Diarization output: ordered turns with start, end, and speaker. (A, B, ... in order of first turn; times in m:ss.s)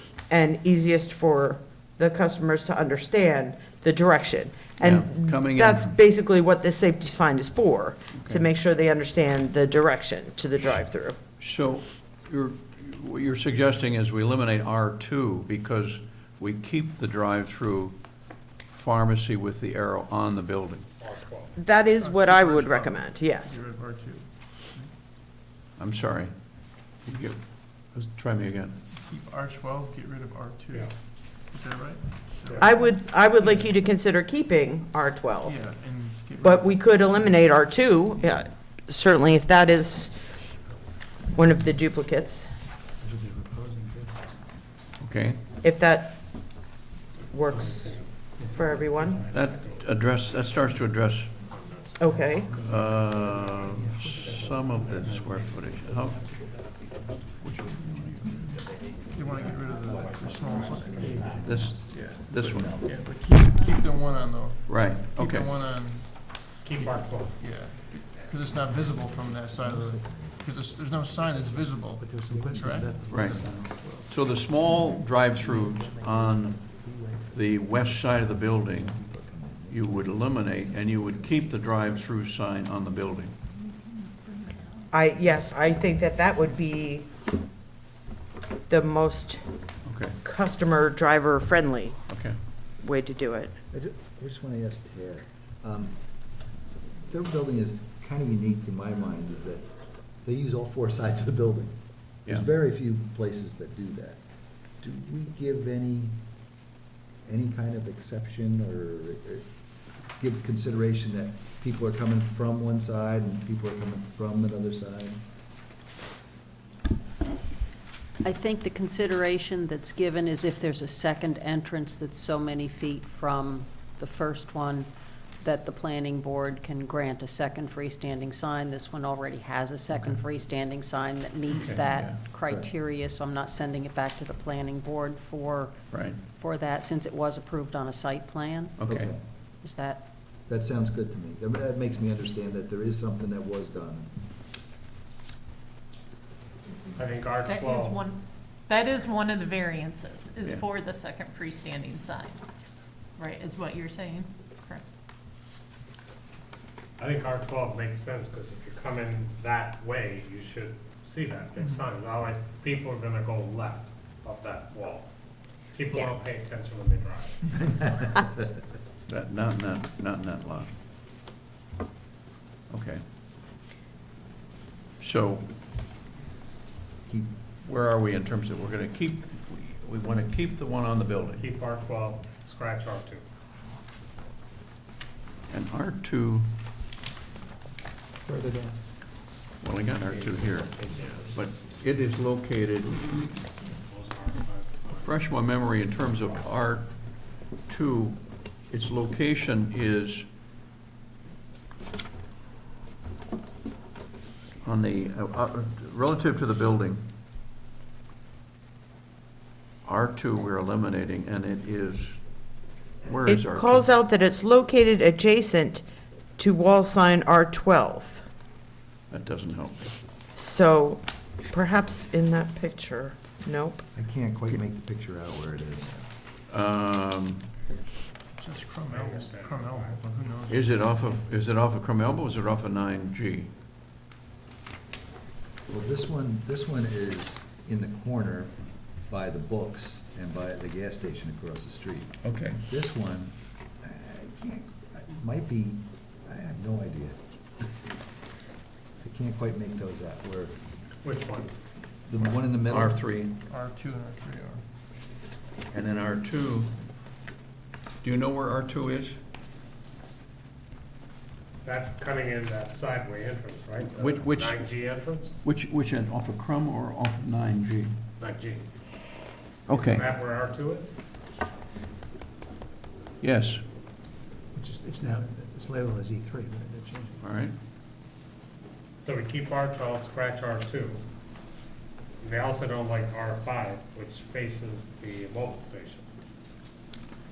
0:00.3-0:11.2 A
0:04.8-0:05.9 B
0:08.1-0:08.4 B
0:11.4-0:18.0 B
0:18.5-0:20.9 B
0:21.0-0:21.6 C
0:21.6-0:23.6 A
0:22.0-0:24.9 D
0:25.8-0:26.3 B
0:26.9-0:28.7 B
0:28.9-0:33.7 D
0:32.6-0:35.6 A
0:35.4-0:37.4 D
0:36.4-0:40.2 A
0:41.3-0:42.5 A
0:43.0-0:44.4 E
0:45.0-0:45.4 B
0:45.6-0:46.5 A
0:47.3-0:48.0 A
0:47.5-0:48.1 C
0:47.6-0:49.8 E
0:48.5-0:49.2 A
0:49.1-0:52.7 C
0:49.3-0:51.3 B
0:52.0-0:52.6 A
0:52.0-1:02.7 E
0:52.6-0:56.3 B
0:53.4-0:53.6 C
0:53.9-0:54.2 D
0:54.2-0:54.5 C
0:57.4-0:58.4 B
0:57.8-1:02.2 D
1:00.4-1:03.1 F
1:00.4-1:01.1 C
1:01.4-1:02.8 B
1:02.8-1:12.9 D
1:04.6-1:05.6 B
1:06.6-1:07.4 C
1:07.9-1:22.0 F
1:11.9-1:14.0 E
1:13.1-1:13.5 B
1:14.1-1:16.6 B
1:17.3-1:18.9 B
1:19.7-1:23.3 B
1:24.9-1:27.1 A
1:28.7-1:29.4 A
1:29.8-1:30.2 B
1:30.2-1:32.0 A
1:32.1-1:32.4 B
1:32.8-1:33.5 A
1:33.7-1:35.9 F
1:37.1-1:39.7 F
1:40.2-1:44.2 F
1:44.8-1:46.2 F
1:47.2-1:49.5 F
1:50.2-1:55.2 F
1:58.2-2:04.9 G
2:05.4-2:15.8 G
2:11.5-2:12.2 B
2:12.4-2:12.7 F
2:15.9-2:16.2 B
2:16.3-2:18.7 G
2:18.8-2:19.1 B
2:18.8-2:19.2 F
2:19.6-2:20.0 G
2:20.4-2:24.1 F
2:27.0-2:28.0 C
2:27.4-2:32.4 H
2:33.2-2:34.8 H
2:37.0-2:45.1 C
2:45.7-2:48.0 C
2:47.5-2:48.6 F
2:49.1-2:50.7 B
2:52.7-2:53.0 B
2:55.0-2:55.5 B
2:57.0-2:57.4 F
2:57.6-3:01.4 B
3:01.4-3:03.2 C
3:05.5-3:06.5 B
3:08.2-3:08.7 E
3:09.6-3:13.3 B
3:10.0-3:11.5 C
3:13.7-3:15.1 C
3:15.0-3:17.1 B
3:17.7-3:20.3 B
3:24.6-3:27.0 B
3:29.8-3:32.2 B
3:33.0-3:33.9 B
3:33.2-3:35.8 A
3:36.4-3:38.2 A
3:39.1-3:39.9 B
3:40.4-3:43.8 A
3:43.9-3:46.1 F
3:46.5-3:47.5 B
3:48.4-3:50.8 D
3:48.9-3:50.0 C
3:50.5-3:53.5 B
3:55.7-3:58.5 F
3:59.1-4:07.2 F
4:02.2-4:02.6 B
4:09.0-4:10.6 F
4:11.0-4:11.5 C
4:12.1-4:13.0 F
4:12.6-4:13.4 B
4:13.5-4:14.6 D
4:15.7-4:16.7 B
4:18.0-4:19.2 B
4:21.6-4:25.4 C
4:23.9-4:24.7 B
4:25.4-4:28.0 B
4:28.2-4:28.7 C
4:29.7-4:30.0 B
4:29.7-4:30.9 C
4:33.2-4:33.6 B
4:34.5-4:37.2 E
4:37.2-4:37.5 B
4:39.0-4:41.0 C
4:42.2-4:46.0 C